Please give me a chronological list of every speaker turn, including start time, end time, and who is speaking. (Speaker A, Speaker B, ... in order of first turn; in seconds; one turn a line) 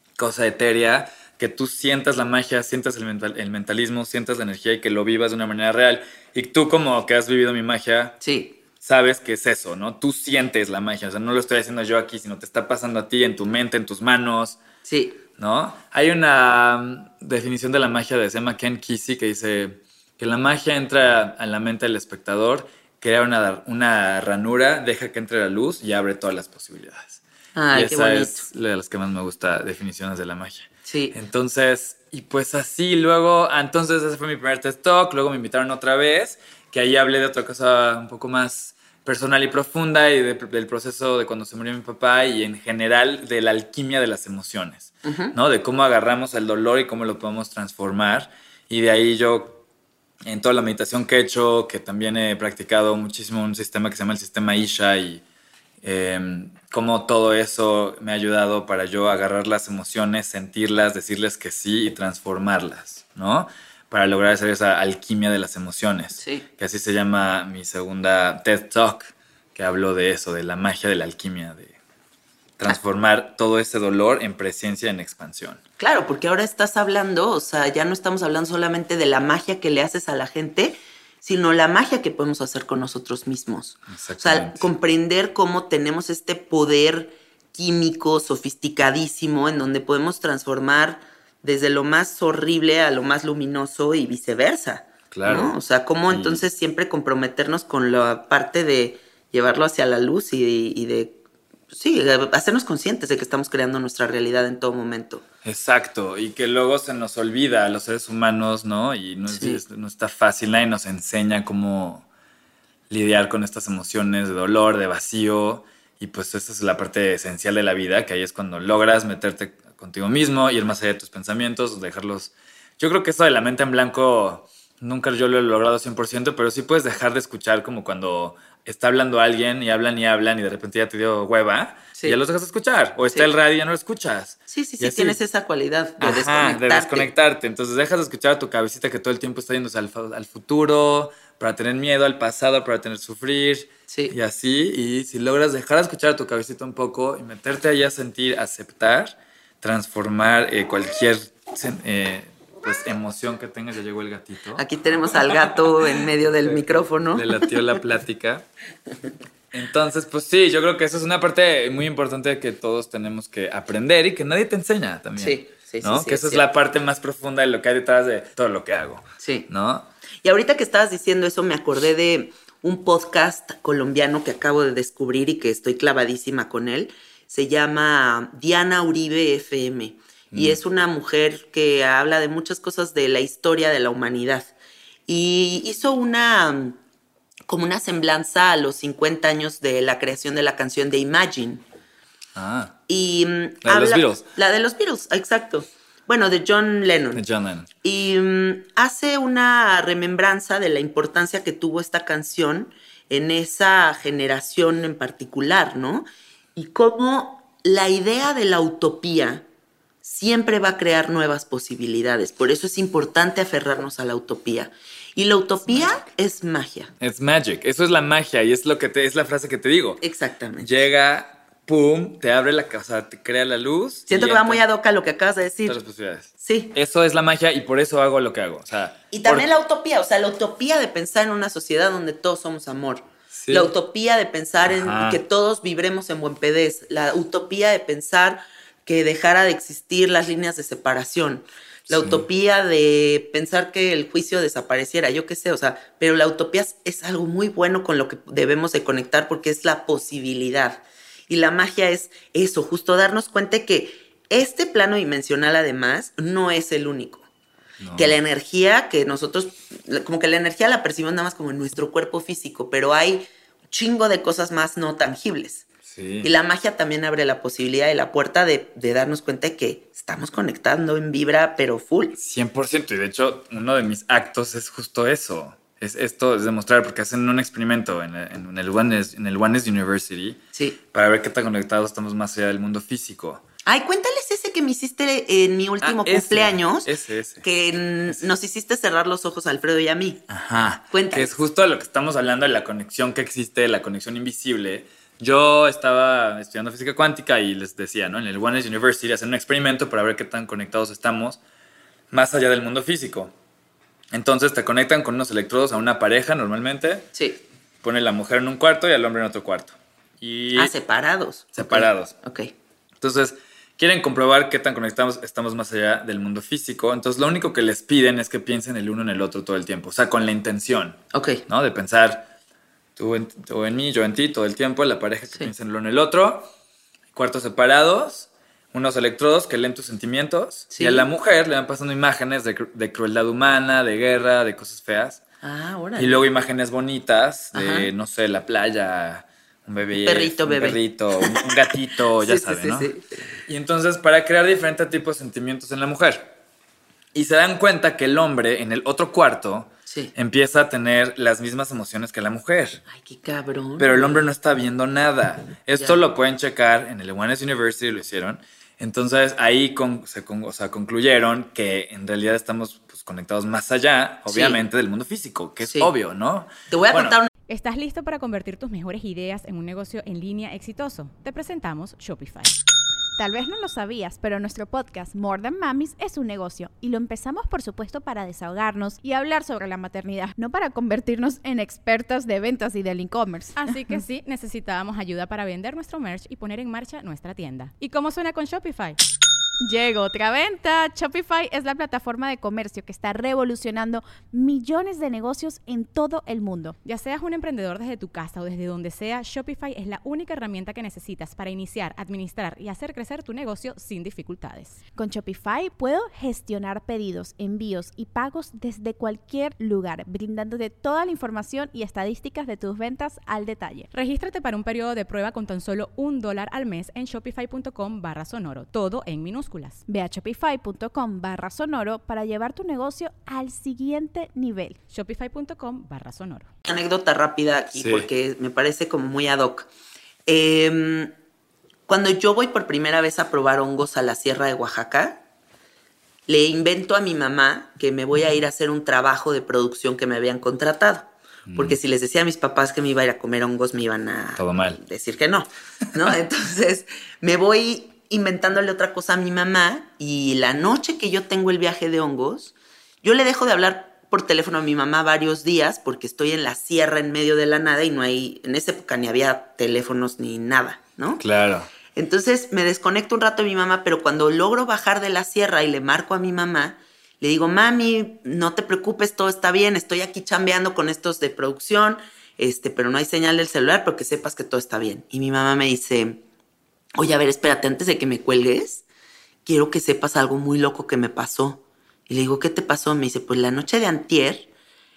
Speaker A: 0.2-8.2
Speaker B: 8.2-8.5
Speaker A: 8.8-14.6
Speaker B: 14.8-15.2
Speaker A: 15.4-27.2
Speaker B: 27.5-28.4
Speaker A: 27.7-49.6
Speaker B: 30.9-31.1
Speaker B: 45.0-45.3
Speaker A: 50.2-55.2
Speaker A: 55.8-71.7
Speaker B: 66.2-66.4
Speaker A: 72.6-75.6
Speaker B: 75.8-101.2
Speaker A: 83.9-84.7
Speaker A: 95.1-96.4
Speaker B: 101.7-105.2
Speaker A: 105.4-112.0
Speaker B: 109.3-109.6
Speaker A: 112.9-135.2
Speaker B: 134.5-137.1
Speaker A: 136.0-158.4
Speaker B: 143.9-144.1
Speaker B: 154.6-157.5
Speaker A: 159.5-169.9
Speaker B: 165.2-166.4
Speaker B: 169.2-169.5
Speaker B: 170.2-184.5
Speaker A: 180.3-180.6
Speaker B: 185.1-186.8
Speaker B: 187.5-191.6
Speaker A: 192.3-192.7
Speaker B: 192.9-197.2
Speaker A: 193.6-194.2
Speaker A: 197.1-197.7
Speaker B: 197.8-209.4
Speaker B: 210.0-216.9
Speaker A: 215.7-216.0
Speaker A: 217.0-220.0
Speaker B: 220.0-220.7
Speaker A: 220.6-224.6
Speaker B: 224.1-225.8
Speaker A: 225.7-229.5
Speaker B: 226.4-226.7
Speaker B: 229.1-257.2
Speaker A: 233.3-233.7
Speaker A: 234.6-235.2
Speaker A: 241.9-242.2
Speaker A: 257.8-258.2
Speaker B: 257.9-265.6
Speaker A: 265.9-266.3
Speaker B: 266.2-272.1
Speaker A: 272.2-280.4
Speaker A: 280.9-283.4
Speaker B: 283.6-286.9
Speaker A: 285.8-287.4
Speaker B: 287.4-290.2
Speaker A: 290.3-301.4
Speaker B: 290.9-291.3
Speaker A: 302.1-303.3
Speaker A: 304.1-307.1
Speaker A: 307.8-310.7
Speaker B: 310.5-312.5
Speaker A: 311.5-312.1
Speaker A: 313.0-322.3
Speaker B: 321.1-321.4
Speaker A: 323.0-326.5
Speaker A: 327.1-335.2
Speaker B: 330.7-331.1
Speaker B: 335.4-336.2
Speaker A: 336.0-342.9
Speaker B: 337.5-337.9
Speaker B: 340.0-341.6
Speaker B: 342.2-343.3
Speaker A: 343.4-346.3
Speaker A: 347.1-352.8
Speaker B: 352.9-354.2
Speaker A: 353.8-367.2
Speaker B: 364.3-364.6
Speaker B: 365.6-365.9
Speaker B: 366.7-367.3
Speaker C: 367.5-372.5
Speaker D: 373.2-384.0
Speaker C: 383.6-389.0
Speaker D: 389.6-396.8
Speaker C: 396.8-404.8
Speaker D: 404.9-413.9
Speaker C: 413.9-419.8
Speaker D: 419.9-424.8
Speaker C: 424.9-426.5
Speaker B: 426.6-429.7
Speaker A: 427.7-428.1
Speaker B: 430.3-431.1
Speaker B: 431.9-435.2
Speaker B: 436.3-461.2
Speaker A: 441.5-441.8
Speaker A: 444.4-444.8
Speaker A: 461.2-461.7
Speaker B: 461.9-476.2
Speaker B: 476.9-478.8
Speaker B: 479.4-484.5